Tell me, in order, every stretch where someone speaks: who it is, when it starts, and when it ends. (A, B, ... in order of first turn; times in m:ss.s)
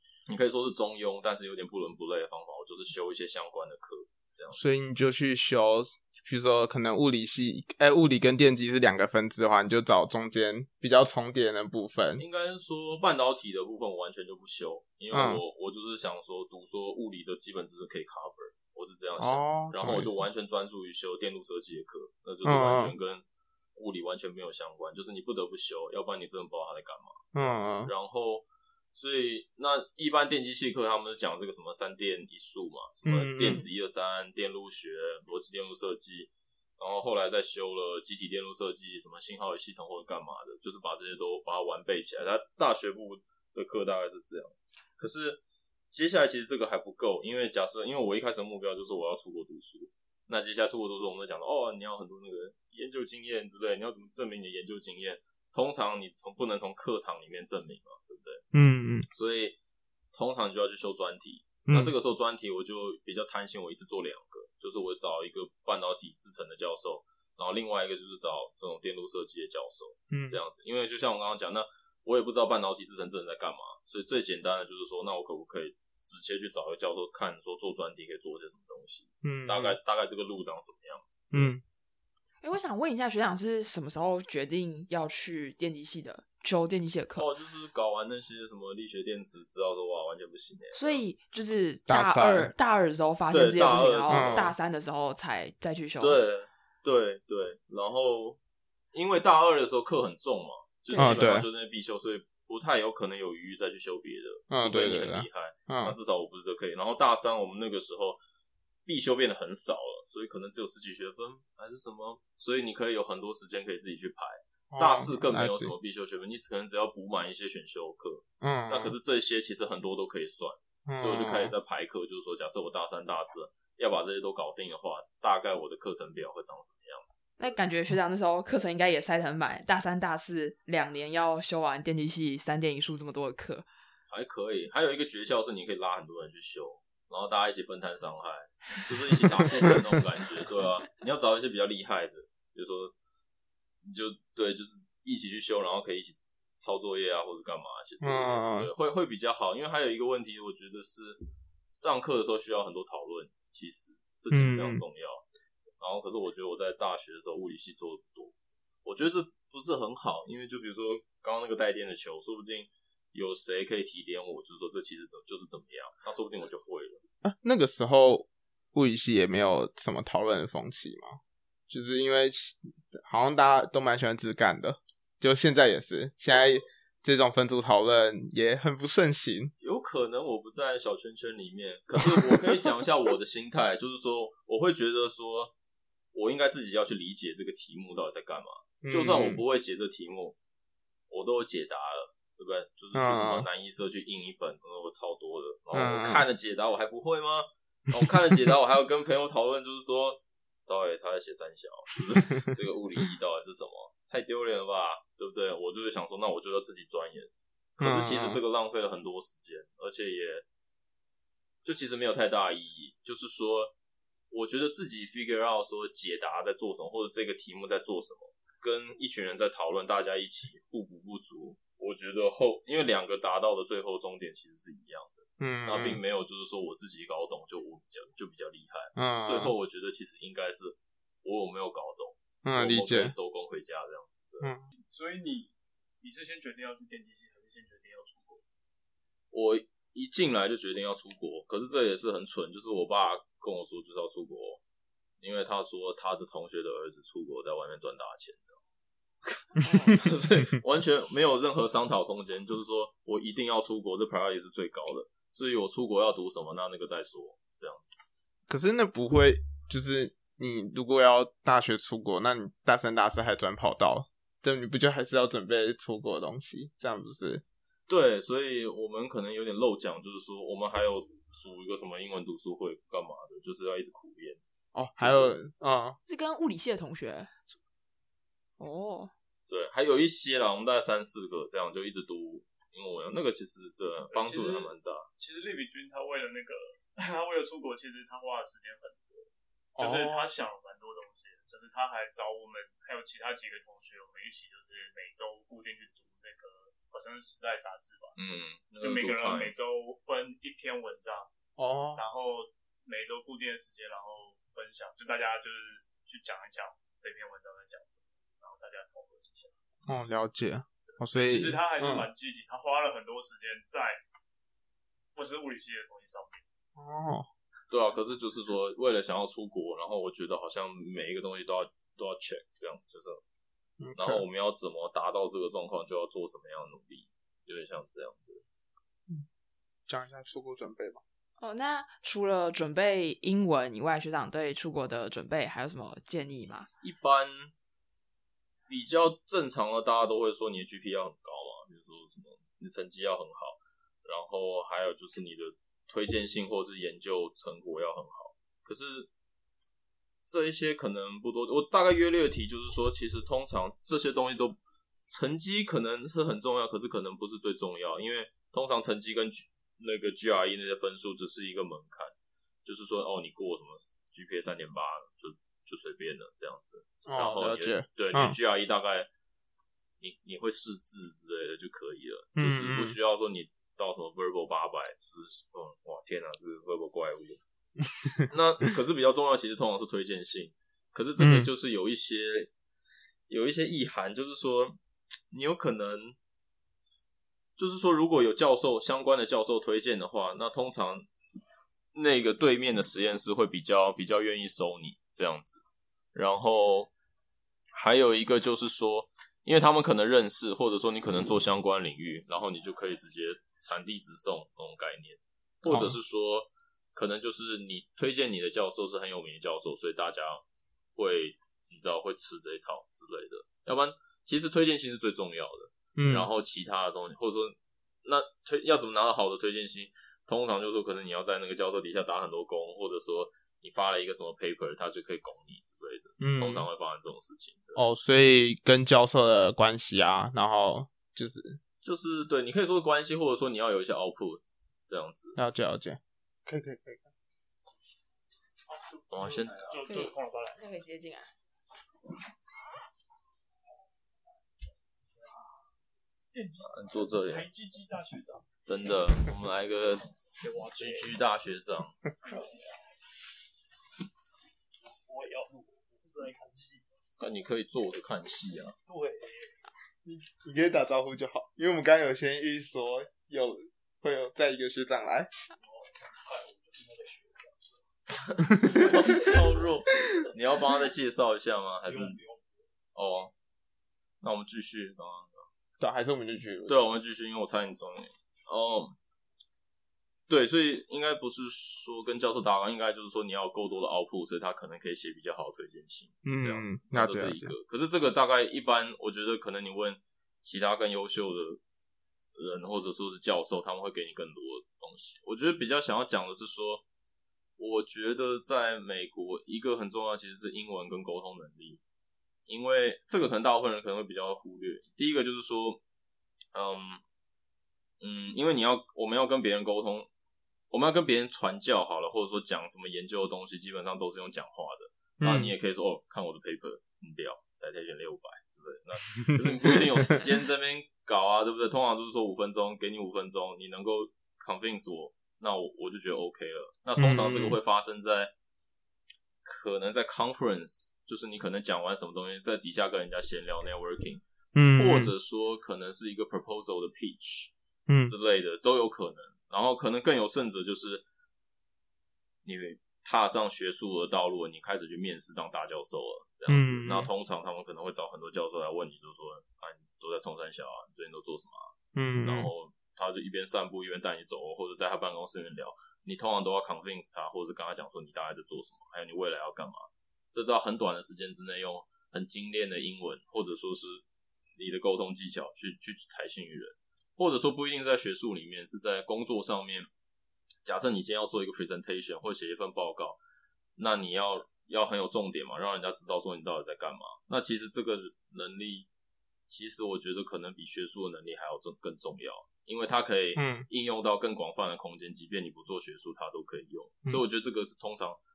0:00.3-0:04.7 A
0:04.6-0:12.2 B
0:12.2-0:58.4 A
0:15.1-0:15.4 B
0:19.2-0:20.2 B
0:22.4-0:22.9 B
0:27.3-0:27.9 B
0:33.0-0:33.6 B
0:58.5-0:59.1 B
0:59.1-0:59.6 A
1:00.1-1:21.5 A
1:01.7-1:01.9 B
1:10.1-1:10.4 B
1:19.2-1:19.8 B
1:21.3-1:21.6 B
1:22.4-1:27.3 C
1:27.1-1:31.0 A
1:30.7-1:36.2 C
1:31.9-1:32.5 B
1:33.3-1:34.5 A
1:34.1-1:34.5 B
1:36.0-1:38.4 A
1:38.9-1:48.2 A
1:40.9-1:41.3 C
1:41.0-1:41.5 B
1:44.5-1:46.0 B
1:48.8-2:07.2 A
1:54.7-1:55.7 B
1:58.4-1:58.9 B
2:00.9-2:01.5 B
2:07.4-2:13.6 C
2:14.1-2:22.9 A
2:23.8-2:35.2 A
2:28.0-2:28.7 B
2:34.3-2:34.8 B
2:35.8-2:38.3 A
2:38.8-2:47.0 A
2:47.2-2:59.5 B
2:59.6-3:05.5 A
3:06.1-3:10.4 A
3:08.8-3:09.4 B
3:11.1-3:30.4 A
3:12.9-3:13.5 B
3:15.7-3:16.2 B
3:27.8-3:28.4 B
3:31.6-3:33.7 A
3:34.3-3:54.5 A
3:45.4-3:46.0 B
3:49.0-3:49.5 B
3:52.4-3:53.1 B
3:54.9-3:58.4 D
3:59.3-4:04.6 A
4:05.2-4:08.6 A
4:09.2-4:17.9 A
4:09.6-4:09.9 C
4:18.5-4:27.4 B
4:27.9-4:34.4 A
4:34.7-4:36.0 B
4:35.0-4:35.3 A
4:36.0-4:37.6 C
4:38.6-4:39.1 C
4:39.5-4:45.0 A
4:44.1-4:58.1 D
4:49.8-4:50.3 B
4:58.2-4:59.5 A
4:58.8-5:01.3 D
5:01.6-5:02.0 B
5:01.9-5:09.5 D
5:09.9-5:12.1 B
5:10.9-5:14.0 D
5:15.1-5:16.4 D
5:16.8-5:17.3 B
5:17.7-5:23.2 A
5:23.8-5:24.2 B
5:24.0-5:28.4 A
5:29.9-5:31.0 B
5:31.4-5:36.7 C
5:36.8-5:37.5 A
5:38.7-5:49.1 A
5:50.2-6:02.1 A
6:02.6-6:09.1 A
6:07.0-6:08.4 B
6:10.0-6:17.4 A
6:12.4-6:13.0 B
6:18.3-6:22.5 A
6:21.2-6:21.5 B
6:23.3-6:24.8 A
6:25.3-6:26.2 A
6:27.6-6:31.1 A
6:31.9-6:35.6 A
6:36.1-6:36.9 A
6:37.8-6:50.4 A
6:45.7-6:45.9 B
6:50.9-7:07.8 A
6:56.0-6:56.3 B
7:06.2-7:06.7 B
7:07.8-7:11.6 B
7:11.8-7:15.4 A
7:15.4-7:17.0 B
7:18.7-7:20.6 D
7:19.1-7:19.6 A
7:19.8-7:21.3 C
7:25.2-7:25.5 D
7:26.3-7:28.5 D
7:26.6-7:27.5 A
7:28.7-7:30.1 A
7:30.0-7:31.2 D
7:30.7-7:32.0 A
7:32.2-7:32.8 D
7:35.0-7:36.9 D
7:37.2-7:38.7 A
7:38.8-7:39.6 D
7:40.0-7:45.3 B
7:45.6-7:47.8 D
7:48.2-7:52.2 A
7:48.7-7:49.5 D
7:51.8-7:52.6 D
7:52.9-7:53.3 A
7:54.2-7:55.4 A
7:55.8-7:56.8 B
7:56.7-7:59.0 A
8:00.3-8:11.6 A
8:06.2-8:07.5 B
8:12.4-8:16.8 A
8:17.6-8:21.8 A
8:22.5-8:25.8 A
8:26.5-8:27.0 A
8:28.0-8:30.1 A
8:30.7-8:48.3 A
8:35.2-8:35.5 B
8:39.3-8:39.8 B
8:47.0-8:47.6 B
8:49.4-8:54.2 A
8:54.5-8:55.1 B
8:54.8-9:01.0 A
8:57.9-8:58.1 B
9:02.4-9:11.7 A
9:06.5-9:07.1 B
9:11.9-9:12.5 B
9:12.2-9:24.0 A
9:24.6-9:29.9 A
9:30.6-9:33.2 A
9:33.8-9:38.9 A
9:39.5-9:48.2 A
9:43.4-9:43.7 B